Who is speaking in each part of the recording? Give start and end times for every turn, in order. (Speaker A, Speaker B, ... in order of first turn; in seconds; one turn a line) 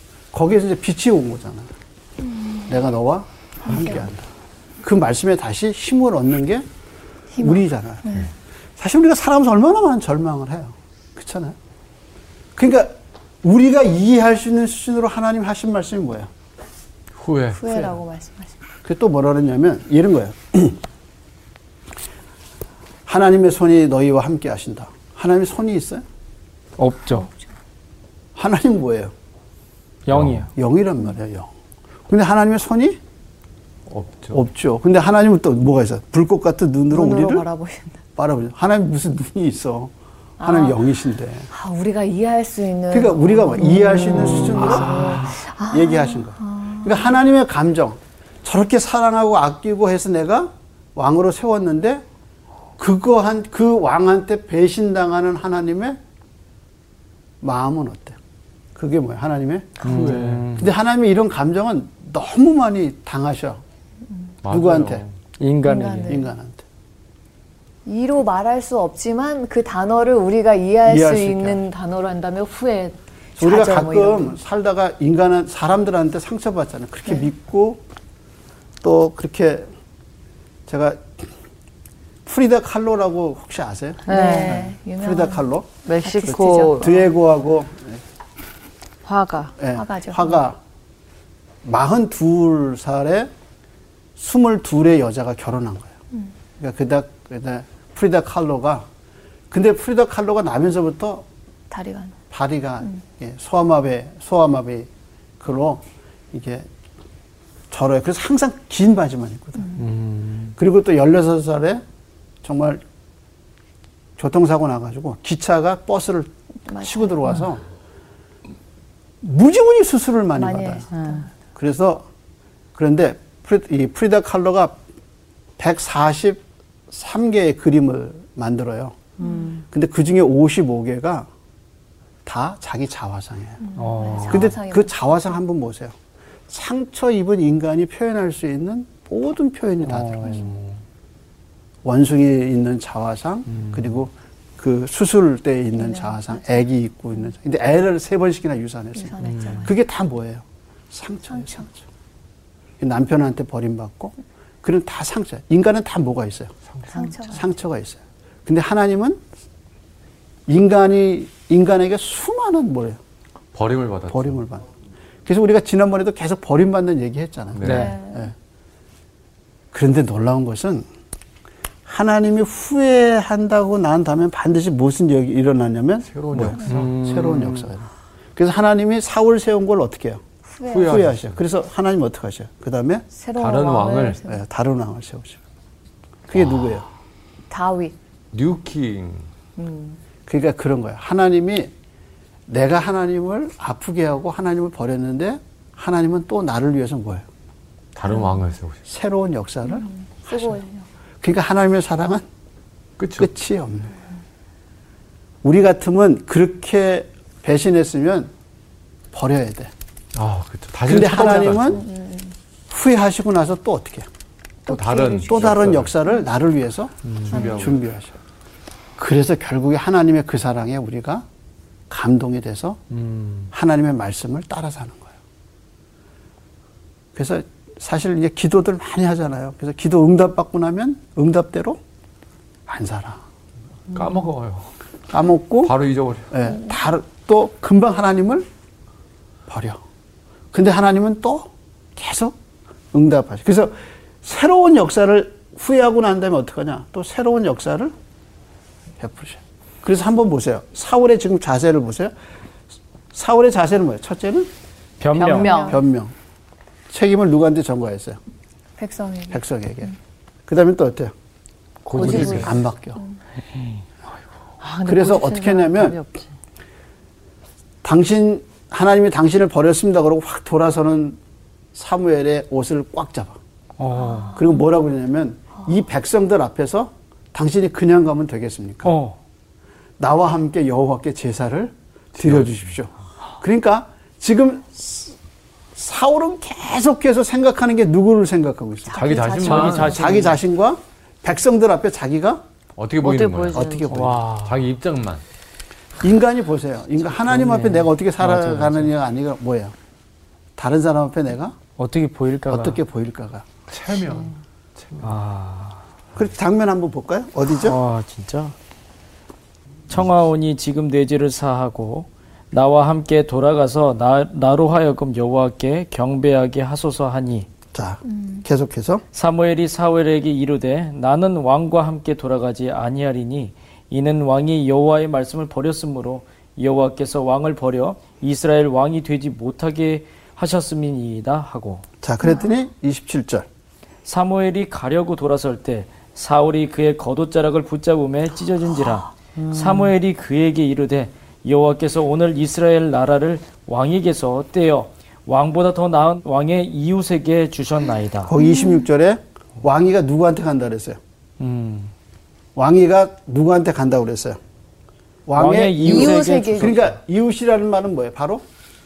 Speaker A: 0.3-1.7
Speaker A: 2.7-4.3
Speaker B: 3.6-4.0
Speaker A: 4.8-6.7
Speaker B: 7.3-8.3
Speaker A: 7.4-8.2
Speaker A: 8.8-11.6
Speaker A: 12.6-16.3
Speaker C: 17.2-17.6
Speaker B: 17.5-18.6
Speaker A: 18.9-20.8
Speaker A: 23.1-26.0
Speaker D: 26.8-27.3
Speaker A: 28.4-29.1
Speaker D: 30.1-30.5
Speaker C: 30.1-30.4
Speaker A: 30.6-31.5
Speaker A: 32.1-33.0
Speaker C: 33.9-34.4
Speaker A: 34.3-37.5
Speaker B: 36.9-38.0
Speaker A: 38.2-41.5
Speaker B: 40.4-40.8
Speaker B: 41.5-47.1
Speaker A: 42.9-52.0
Speaker A: 52.8-56.0
Speaker A: 57.4-58.2
Speaker A: 58.8-63.6
Speaker D: 59.8-60.7
Speaker C: 60.1-60.4
Speaker C: 64.4-65.1
Speaker A: 64.5-65.0
Speaker D: 65.4-66.2
Speaker B: 65.6-66.3
Speaker A: 66.1-66.6
Speaker B: 67.9-74.4
Speaker A: 70.8-71.6
Speaker A: 73.4-77.8
Speaker A: 78.8-79.7
Speaker A: 80.7-81.3
Speaker A: 82.2-88.0
Speaker E: 84.1-84.6
Speaker B: 84.1-85.5
Speaker E: 85.8-86.9
Speaker B: 86.0-87.1
Speaker E: 89.0-89.6
Speaker A: 89.6-90.6
Speaker B: 89.7-90.4
Speaker A: 91.6-93.3
Speaker A: 94.2-95.9
Speaker A: 96.6-98.9
Speaker A: 99.5-101.3
Speaker B: 101.7-102.2
Speaker A: 102.3-104.9
Speaker A: 105.4-106.7
Speaker A: 107.7-109.8
Speaker D: 109.8-110.5
Speaker A: 110.6-111.8
Speaker A: 112.4-112.8
Speaker A: 114.2-117.6
Speaker B: 116.7-117.3
Speaker A: 119.2-120.9
Speaker B: 120.4-121.3
Speaker E: 120.9-121.2
Speaker A: 121.5-122.0
Speaker A: 122.8-124.8
Speaker A: 125.6-129.0
Speaker E: 129.2-129.6
Speaker B: 129.2-129.5
Speaker A: 129.7-131.3
Speaker A: 132.2-133.7
Speaker B: 133.6-134.9
Speaker D: 133.8-134.5
Speaker A: 134.3-135.9
Speaker A: 136.5-140.5
Speaker D: 139.9-140.7
Speaker A: 141.8-151.8
Speaker B: 145.8-146.6
Speaker B: 149.0-149.7
Speaker D: 149.3-149.6
Speaker B: 151.3-151.6
Speaker A: 152.8-156.5
Speaker B: 156.9-157.5
Speaker A: 157.2-159.2
Speaker A: 160.5-163.0
Speaker C: 163.5-164.4
Speaker A: 164.1-164.7
Speaker A: 165.3-168.3
Speaker C: 167.6-168.0
Speaker D: 167.6-167.9
Speaker B: 167.7-168.3
Speaker A: 169.7-170.9
Speaker A: 171.9-180.2
Speaker C: 176.1-177.5
Speaker D: 176.7-177.5
Speaker B: 180.5-181.0
Speaker C: 180.7-181.3
Speaker A: 180.9-183.1
Speaker B: 183.1-184.4
Speaker C: 183.4-184.2
Speaker A: 184.2-185.4
Speaker A: 186.3-186.9
Speaker C: 186.3-186.8
Speaker B: 187.5-187.9
Speaker C: 188.3-189.3
Speaker B: 189.6-190.0
Speaker A: 190.3-191.7
Speaker A: 192.5-197.3
Speaker C: 198.0-198.8
Speaker A: 198.9-200.6
Speaker B: 199.7-200.8
Speaker A: 201.2-202.2
Speaker C: 203.0-203.3
Speaker A: 203.2-203.9
Speaker A: 205.4-208.3
Speaker A: 209.1-209.7
Speaker C: 210.2-211.8
Speaker A: 210.9-211.8
Speaker B: 211.6-212.3
Speaker A: 212.7-214.1
Speaker B: 214.7-215.7
Speaker C: 214.7-215.9
Speaker A: 215.2-218.1
Speaker C: 217.2-217.8
Speaker B: 217.3-217.7
Speaker A: 219.0-221.3
Speaker A: 221.9-222.8
Speaker D: 223.0-223.5
Speaker A: 223.5-225.1
Speaker A: 227.2-231.8
Speaker A: 232.7-233.2
Speaker C: 233.9-234.7
Speaker A: 235.1-235.7
Speaker C: 235.6-236.3
Speaker A: 236.3-238.5
Speaker A: 239.5-239.8
Speaker A: 240.5-242.3
Speaker A: 242.9-247.9
Speaker A: 249.0-252.1
Speaker A: 253.1-254.5
Speaker D: 255.0-255.5
Speaker B: 255.2-255.8
Speaker A: 255.2-256.1
Speaker E: 255.2-255.8
Speaker A: 256.9-258.2
Speaker B: 258.8-259.4
Speaker A: 259.3-259.9
Speaker A: 260.5-261.1
Speaker D: 261.9-262.5
Speaker A: 261.9-263.0
Speaker B: 262.0-263.1
Speaker C: 262.1-262.4
Speaker E: 264.6-266.3
Speaker A: 264.8-266.0
Speaker A: 267.8-271.2
Speaker A: 271.7-273.4
Speaker D: 273.8-274.4
Speaker B: 274.0-274.4
Speaker A: 274.3-278.9
Speaker D: 278.9-279.2
Speaker A: 280.0-285.2
Speaker C: 282.2-282.6
Speaker A: 285.8-292.4
Speaker C: 288.9-290.0
Speaker B: 288.9-290.0
Speaker D: 289.3-290.4
Speaker C: 292.8-295.2
Speaker E: 293.0-293.9
Speaker A: 293.5-294.2
Speaker D: 293.9-294.6
Speaker A: 296.0-299.7
Speaker D: 297.2-298.9
Speaker A: 300.6-301.6
Speaker D: 301.8-302.8
Speaker A: 302.5-303.4
Speaker C: 303.7-305.2
Speaker D: 305.0-305.8
Speaker A: 306.2-307.8
Speaker D: 307.5-308.5
Speaker D: 309.9-317.5
Speaker A: 317.7-319.0
Speaker B: 318.1-318.4
Speaker D: 319.1-331.8
Speaker A: 332.0-333.5
Speaker B: 332.2-332.5
Speaker D: 334.1-348.3
Speaker E: 339.4-339.9
Speaker A: 348.2-351.0
Speaker B: 348.4-348.9
Speaker D: 351.4-351.9
Speaker A: 352.6-354.4
Speaker A: 355.3-358.4
Speaker D: 355.4-356.9
Speaker B: 355.8-356.9